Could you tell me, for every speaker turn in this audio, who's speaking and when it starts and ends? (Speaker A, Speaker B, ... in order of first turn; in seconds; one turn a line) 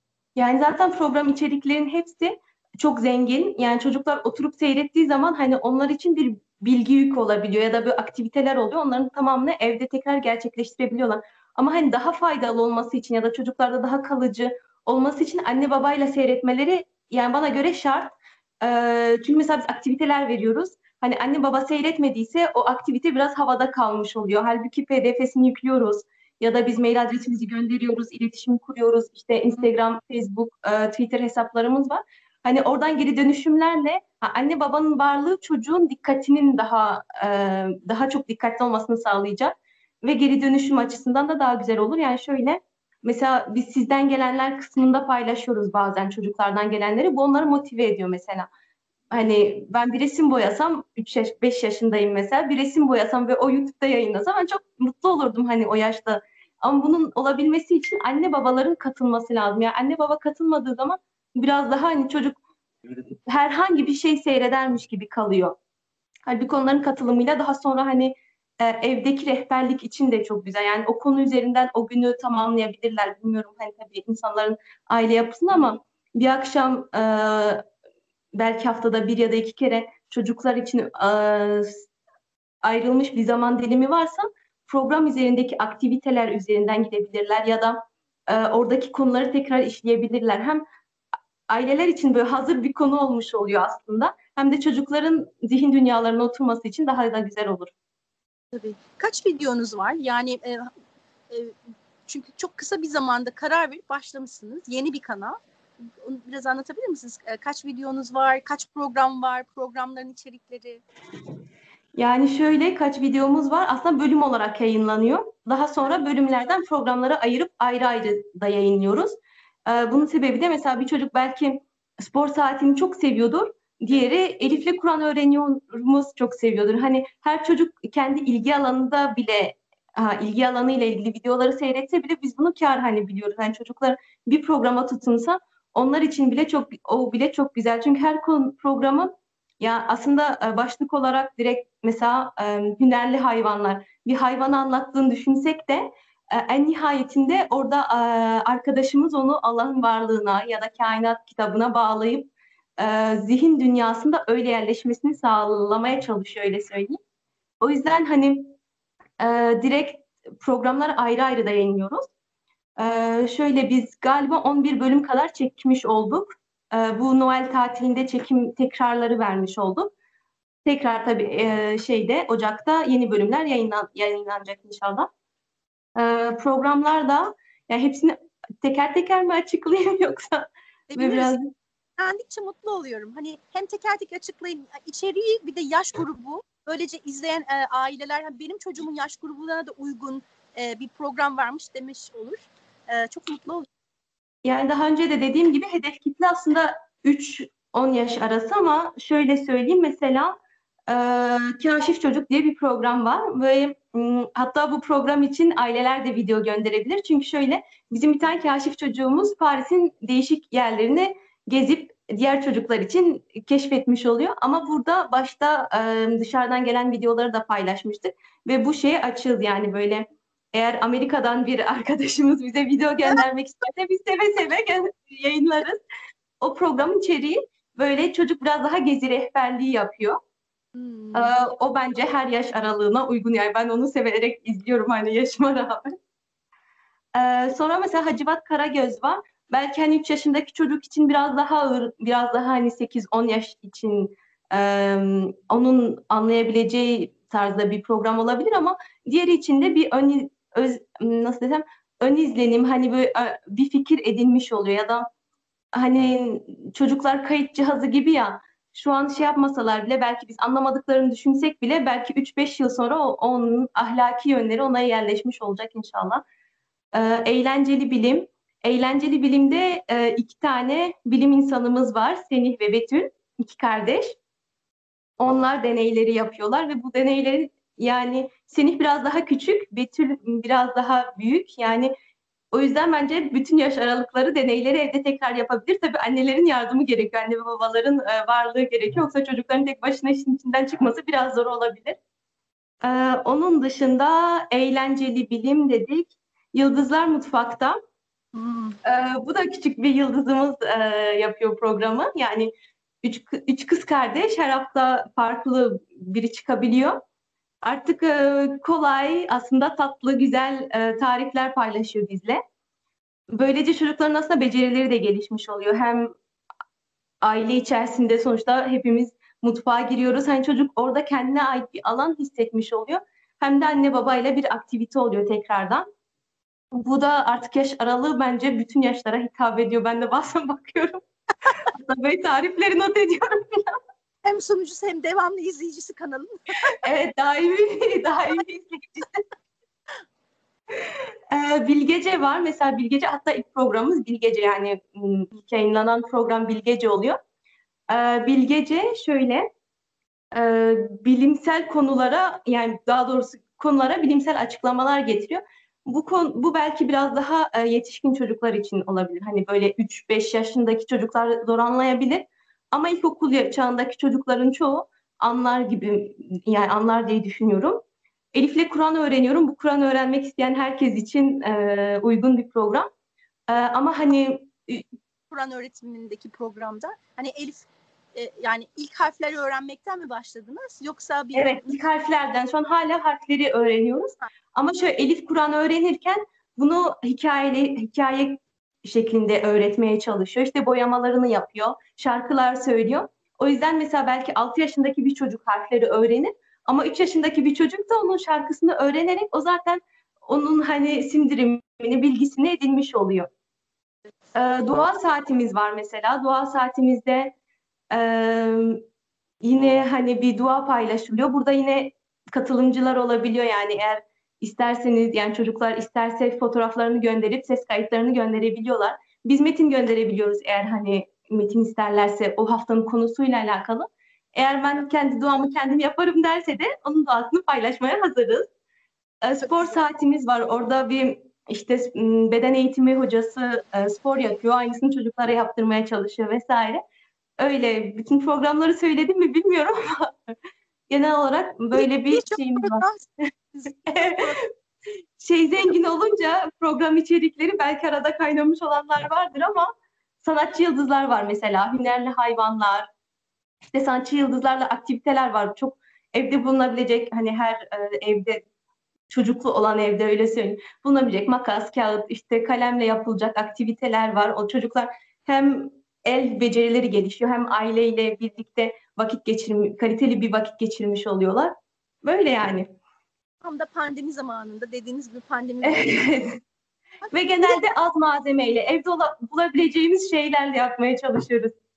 Speaker A: 0.4-48.5
Speaker A: 49.1-65.6
Speaker A: 66.3-77.7
Speaker A: 78.3-81.8
Speaker A: 82.6-90.6
Speaker A: 91.5-97.7
Speaker B: 98.5-100.7
Speaker B: 102.1-110.8
Speaker A: 112.0-157.0
Speaker A: 157.6-158.6
Speaker A: 159.2-162.1
Speaker A: 162.8-169.9
Speaker A: 170.7-175.1
Speaker A: 176.0-181.4
Speaker B: 180.9-181.4
Speaker B: 182.0-193.7
Speaker A: 194.4-200.4
Speaker A: 200.9-225.8
Speaker A: 226.4-230.2
Speaker B: 230.8-231.3
Speaker A: 231.1-235.9
Speaker A: 237.2-255.1
Speaker A: 255.8-266.2
Speaker A: 266.9-274.2
Speaker A: 275.2-281.9
Speaker A: 282.5-292.0
Speaker A: 292.8-297.8
Speaker B: 298.3-298.8
Speaker A: 298.8-302.5
Speaker A: 303.0-307.0
Speaker A: 307.6-312.4
Speaker A: 313.3-316.1
Speaker A: 317.2-325.9
Speaker A: 326.7-331.0
Speaker A: 331.7-333.8
Speaker B: 334.2-336.8
Speaker A: 336.8-339.2
Speaker A: 340.7-347.2
Speaker A: 347.9-349.5
Speaker A: 350.3-367.8
Speaker A: 368.3-372.9
Speaker A: 373.5-374.9
Speaker B: 375.3-381.7
Speaker A: 381.3-403.3
Speaker A: 404.4-407.3
Speaker A: 407.9-408.8
Speaker A: 409.4-428.5
Speaker A: 429.2-436.8
Speaker B: 429.4-429.8
Speaker A: 437.4-440.3
Speaker A: 440.9-442.8
Speaker B: 441.8-444.4
Speaker A: 443.9-444.2
Speaker A: 445.2-449.7
Speaker A: 450.2-452.9
Speaker A: 453.7-458.4
Speaker A: 459.1-472.7
Speaker B: 473.4-476.1
Speaker A: 475.6-476.4
Speaker B: 477.1-477.6
Speaker A: 477.1-481.5